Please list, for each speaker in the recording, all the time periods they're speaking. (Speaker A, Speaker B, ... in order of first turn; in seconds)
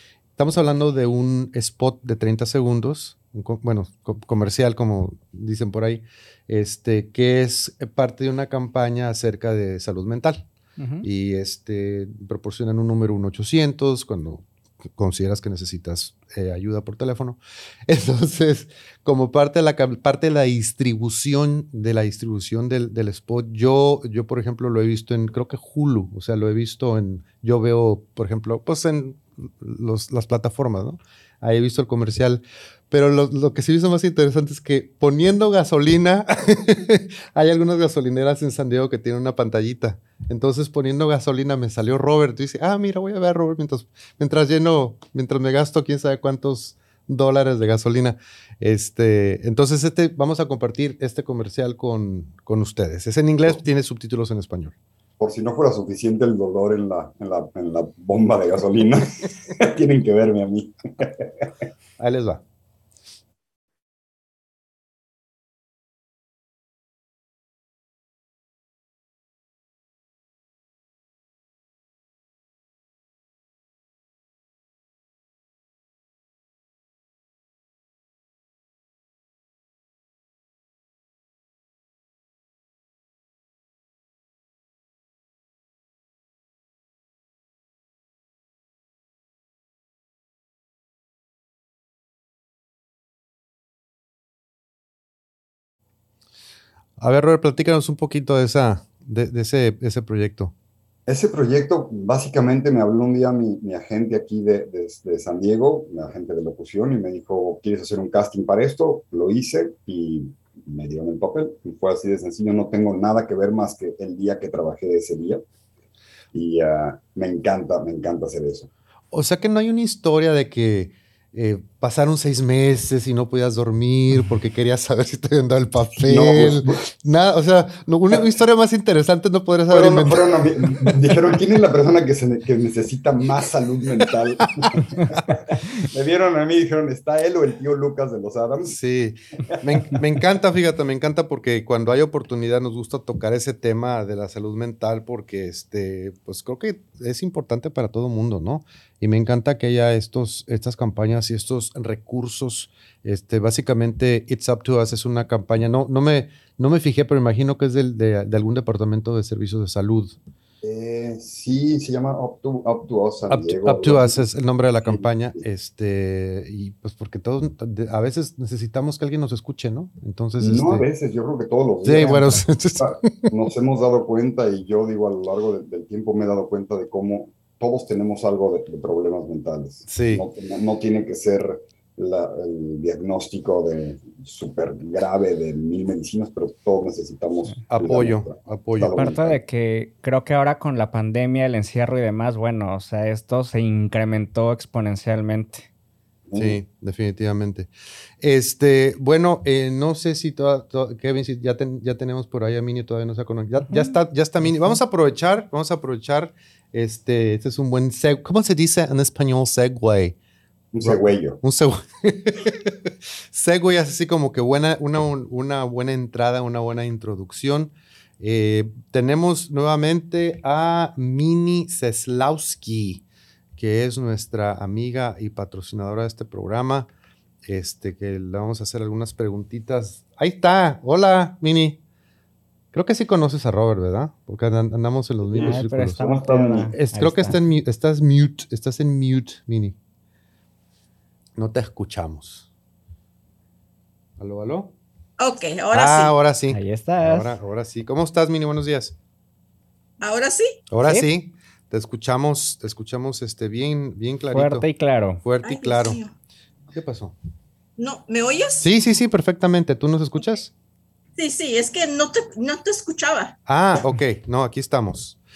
Speaker A: 0.4-10.4, 11.0-54.7, 62.0-62.4, 97.0-100.5, 119.1-130.9, 138.7-160.2, 163.3-170.9, 171.8-173.3, 179.9-180.2, 187.7-189.0, 196.3-210.2, 210.8-223.0, 223.6-226.9, 227.4-231.8, 232.7-236.0, 236.7-239.8, 241.3-242.4, 244.2-244.7, 245.7-248.9, 250.7-254.7, 255.2-256.0, 256.7-257.1, 258.6-260.5, 263.5-265.2
Speaker B: 10.8-11.1, 188.9-195.7, 235.3-237.4, 246.5-247.3, 254.3-255.2
Speaker C: 55.2-61.5, 101.1-115.4, 116.3-118.7, 126.0-126.8, 129.7-138.8, 160.6-164.2, 164.8-165.4, 170.4-189.4, 196.3-196.6, 210.7-211.4, 235.3-236.7
Speaker D: 245.2-246.1, 250.0-250.6, 255.4-256.1, 257.8-258.7, 261.2-263.4